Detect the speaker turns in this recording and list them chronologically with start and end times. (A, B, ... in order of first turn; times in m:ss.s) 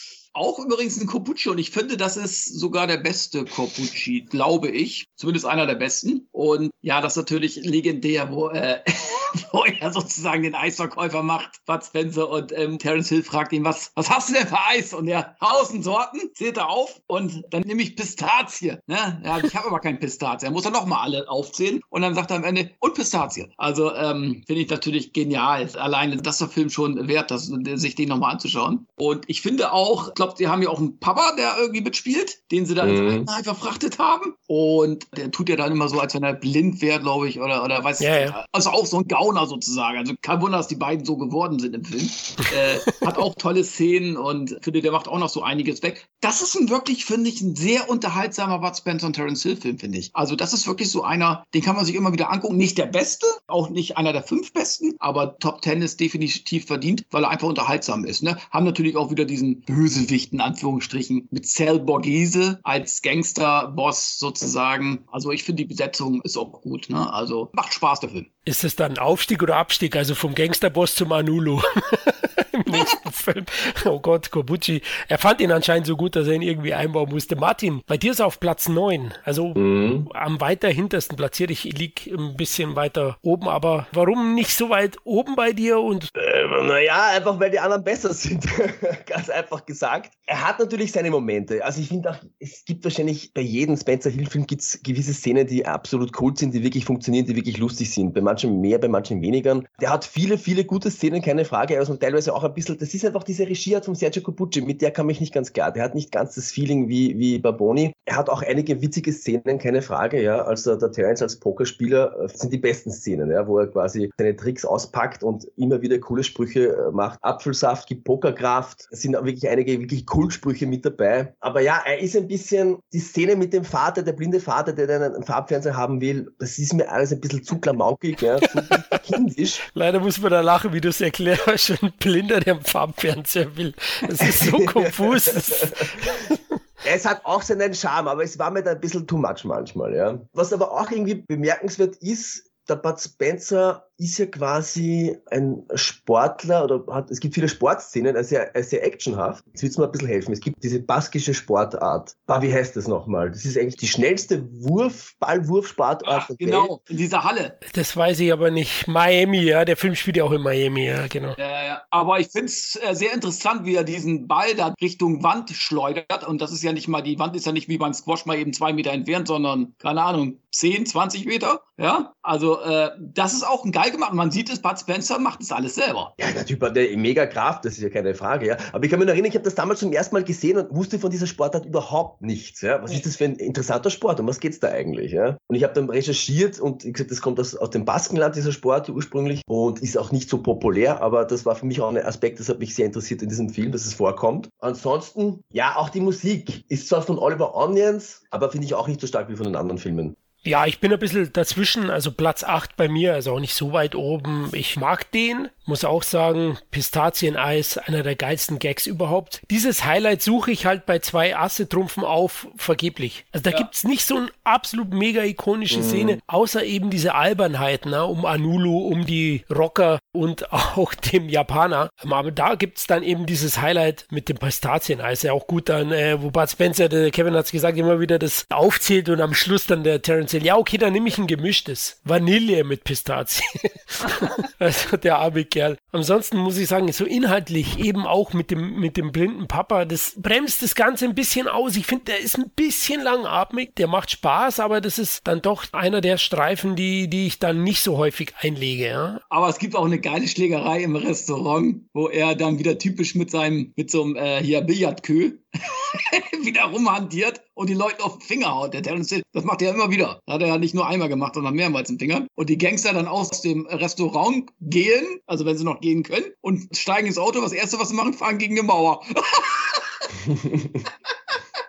0:00.3-1:08.3 A
0:32.8-0:33.3 B
0:38.0-0:38.4 C
1:08.5-1:26.1 C
1:19.6-1:20.1 B
1:26.2-2:09.6 B
2:09.7-2:16.4 C
2:14.2-2:15.9 B
2:16.8-2:36.7 B
2:36.0-2:37.6 A
2:37.7-2:41.4 C
2:41.4-2:56.1 A
2:56.2-3:20.2 B
3:20.4-4:09.2 C
3:35.7-3:36.2 B
4:09.3-4:29.9 A
4:30.3-4:30.8 B